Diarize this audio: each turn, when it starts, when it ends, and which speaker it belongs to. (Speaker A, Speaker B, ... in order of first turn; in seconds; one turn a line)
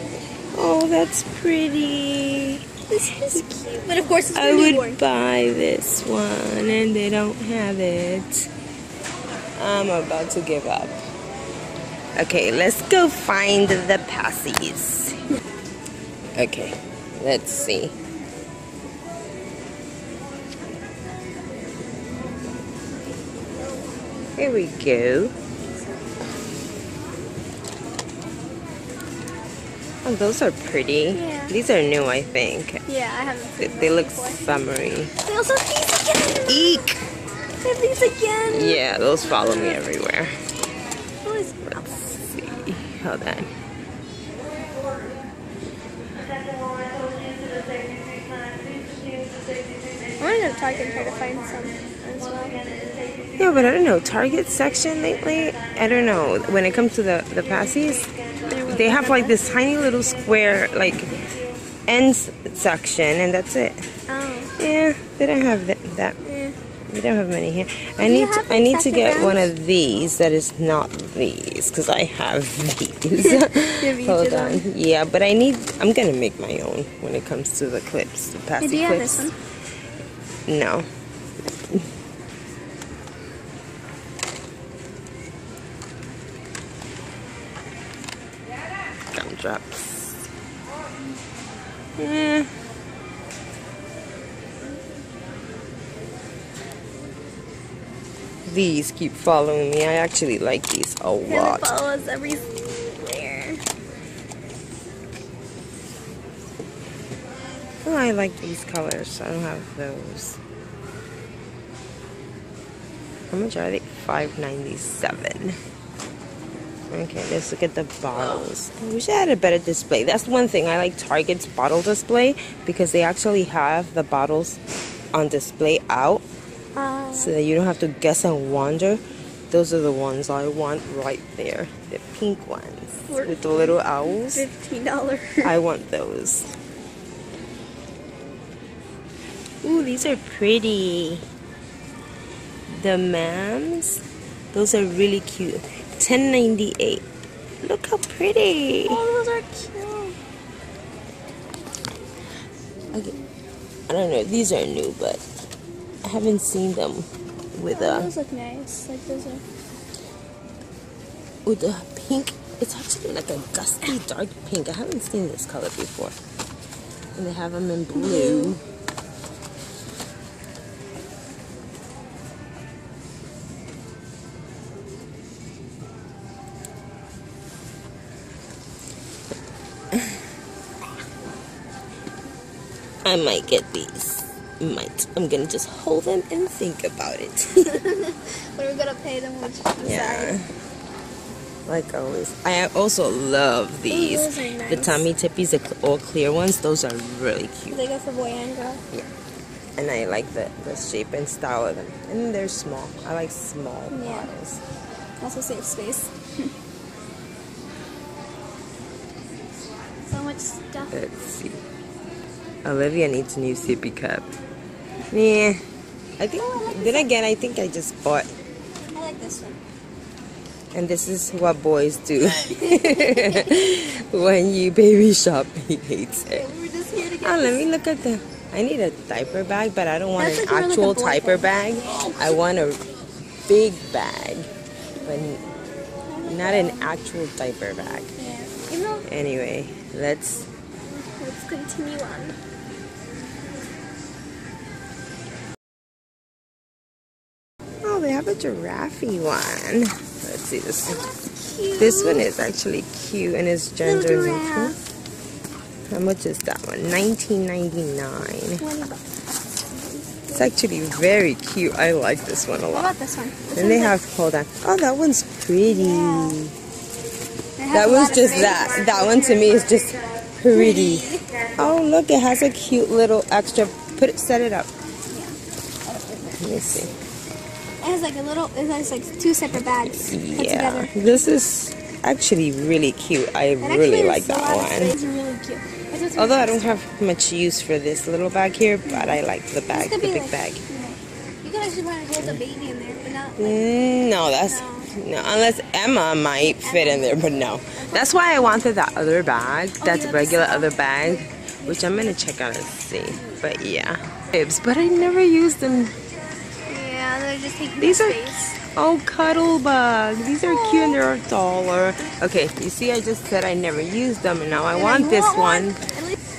Speaker A: 0.5-2.6
Speaker B: 2.9-5.0
Speaker A: 4.3-8.5
Speaker A: 9.6-11.0
Speaker A: 12.2-15.2
Speaker A: 16.3-17.9
Speaker A: 24.4-25.3
Speaker A: 30.0-32.8
Speaker B: 31.1-31.6
Speaker B: 32.9-34.5
Speaker A: 33.6-35.1
Speaker B: 35.2-36.9
Speaker A: 36.5-37.0
Speaker B: 37.6-39.8
Speaker A: 38.4-40.3
Speaker B: 41.2-41.8
Speaker A: 41.7-43.5
Speaker B: 50.2-52.6
Speaker A: 53.4-58.1
Speaker B: 58.4-59.4
Speaker A: 58.6-61.1
Speaker A: 61.9-63.8
Speaker B: 64.1-64.5
Speaker A: 64.6-66.2
Speaker B: 66.2-66.5
Speaker A: 66.9-79.3
Speaker B: 68.0-69.5
Speaker B: 73.1-74.6
Speaker B: 78.6-79.3
Speaker A: 80.5-80.9
Speaker A: 89.1-90.1
Speaker A: 92.0-92.5
Speaker A: 98.5-101.8
Speaker B: 101.2-103.6
Speaker A: 107.8-110.4
Speaker A: 113.3-115.6
Speaker A: 116.9-124.6
Speaker A: 125.1-126.2
Speaker B: 126.7-127.3
Speaker A: 127.1-134.4
Speaker B: 133.1-135.5
Speaker A: 135.4-136.5
Speaker A: 139.6-141.2
Speaker A: 142.7-144.0
Speaker A: 144.5-147.0
Speaker A: 147.6-149.0
Speaker B: 148.8-150.2
Speaker A: 153.9-155.2
Speaker A: 156.0-158.1
Speaker B: 157.7-159.4
Speaker A: 161.4-166.2
Speaker A: 167.2-168.6
Speaker B: 167.9-168.6
Speaker A: 183.0-187.8
Speaker B: 187.7-190.3
Speaker A: 189.8-190.5
Speaker A: 191.7-197.8
Speaker B: 193.9-195.1
Speaker B: 197.7-198.8
Speaker A: 199.8-204.6
Speaker B: 203.9-204.3
Speaker B: 205.2-206.1
Speaker B: 210.1-210.9
Speaker A: 210.9-211.6
Speaker A: 212.6-214.3
Speaker A: 215.1-215.6
Speaker A: 216.2-218.3
Speaker B: 216.3-217.1
Speaker B: 218.9-219.6
Speaker A: 220.7-226.4
Speaker B: 222.4-223.6
Speaker B: 226.3-227.6
Speaker A: 227.2-232.8
Speaker B: 230.2-232.4
Speaker A: 233.4-234.5
Speaker A: 235.0-235.4
Speaker B: 236.1-236.9
Speaker A: 236.2-238.1
Speaker B: 238.2-239.1
Speaker A: 239.1-240.5
Speaker B: 240.9-242.3
Speaker A: 247.8-251.0
Speaker B: 250.8-252.3
Speaker A: 251.8-254.7
Speaker B: 253.8-254.8
Speaker A: 255.9-258.6
Speaker B: 258.6-259.0
Speaker B: 259.7-260.5
Speaker A: 260.3-262.9
Speaker B: 262.7-264.0
Speaker A: 263.5-266.5
Speaker B: 265.6-266.4
Speaker B: 267.6-268.9
Speaker A: 267.7-274.7
Speaker B: 270.5-271.3
Speaker B: 275.1-276.4
Speaker A: 276.4-276.9
Speaker B: 277.8-281.3
Speaker A: 279.5-284.9
Speaker B: 283.6-286.7
Speaker A: 286.2-290.6
Speaker B: 288.8-293.6
Speaker A: 293.4-305.9
Speaker B: 294.3-294.9
Speaker B: 296.6-297.2
Speaker B: 297.8-298.7
Speaker B: 299.8-302.1
Speaker B: 303.1-303.4
Speaker B: 306.7-308.5
Speaker A: 307.8-315.8
Speaker B: 310.4-311.1
Speaker B: 314.7-316.1